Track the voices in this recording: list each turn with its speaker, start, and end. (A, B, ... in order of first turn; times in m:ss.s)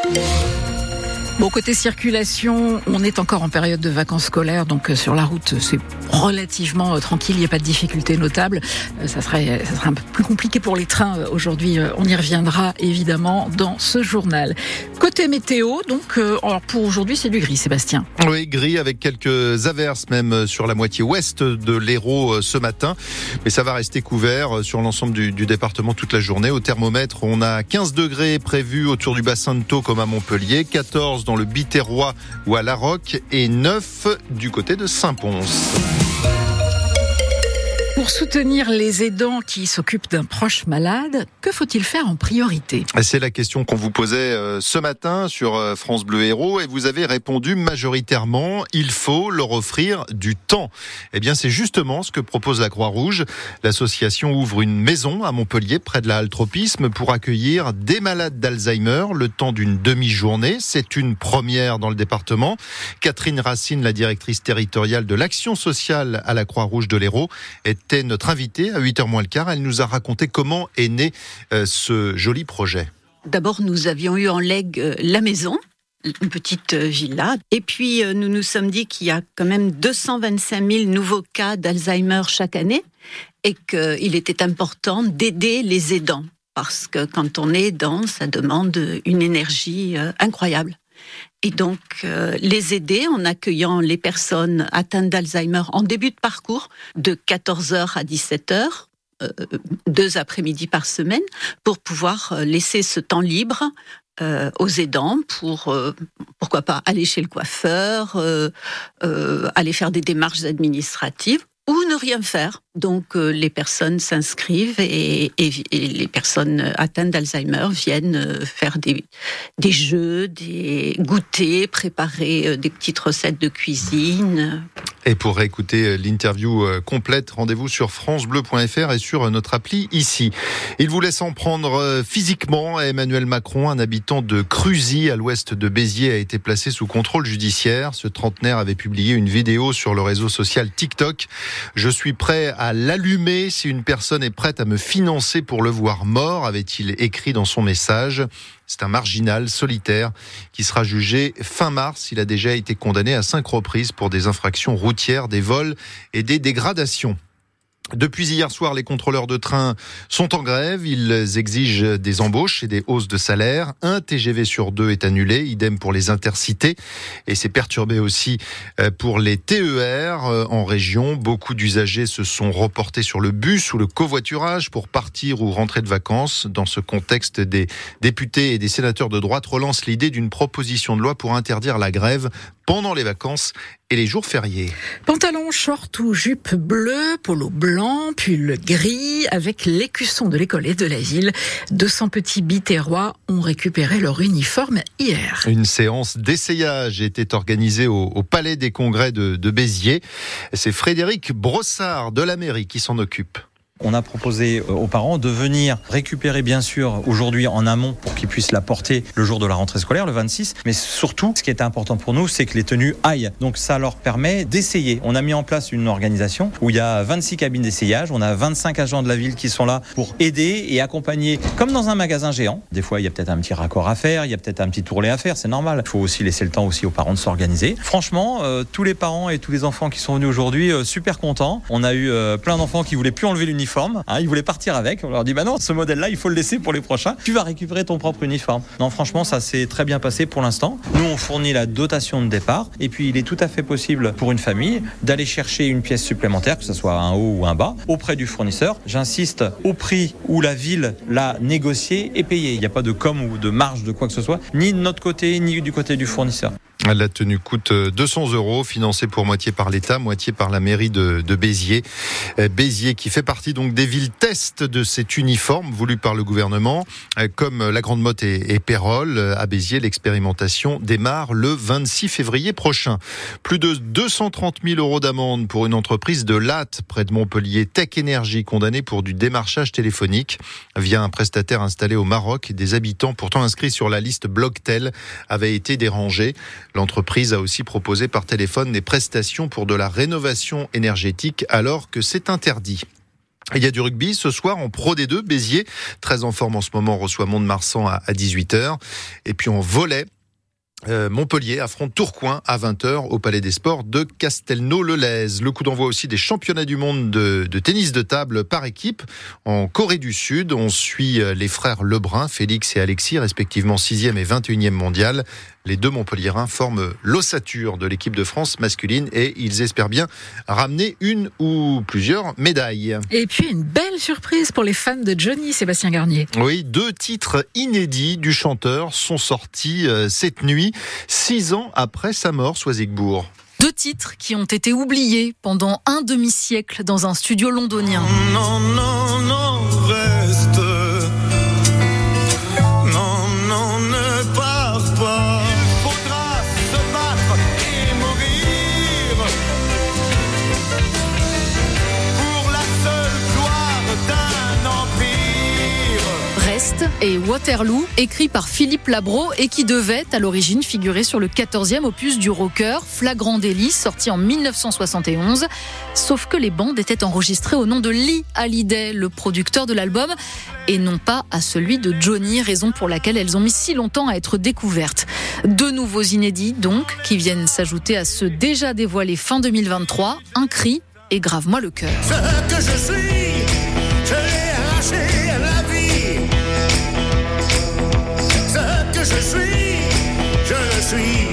0:01.4-0:18.1 A
0:18.2-0:35.7 B
0:38.0-0:42.9 A
0:43.0-1:12.9 B
1:13.3-1:22.8 C
1:23.4-1:30.8 C
1:31.4-1:48.5 C
1:49.0-2:04.7 C
2:05.0-2:37.2 B
2:38.0-3:04.8 B
3:05.0-3:15.5 A
3:15.5-3:20.0 B
3:20.5-3:23.4 B
3:23.8-4:16.5 D
4:16.9-4:21.8 B
4:22.4-4:52.8 B
4:53.6-5:00.1 B
5:00.9-5:23.0 B
5:23.1-5:26.3 A
5:26.3-5:33.3 B
5:33.6-5:38.1 E
5:38.2-5:41.1 B
5:42.9-5:49.2 B
5:52.2-5:56.1 B
5:56.4-6:05.4 E
6:06.0-6:10.1 E
6:10.7-6:22.2 E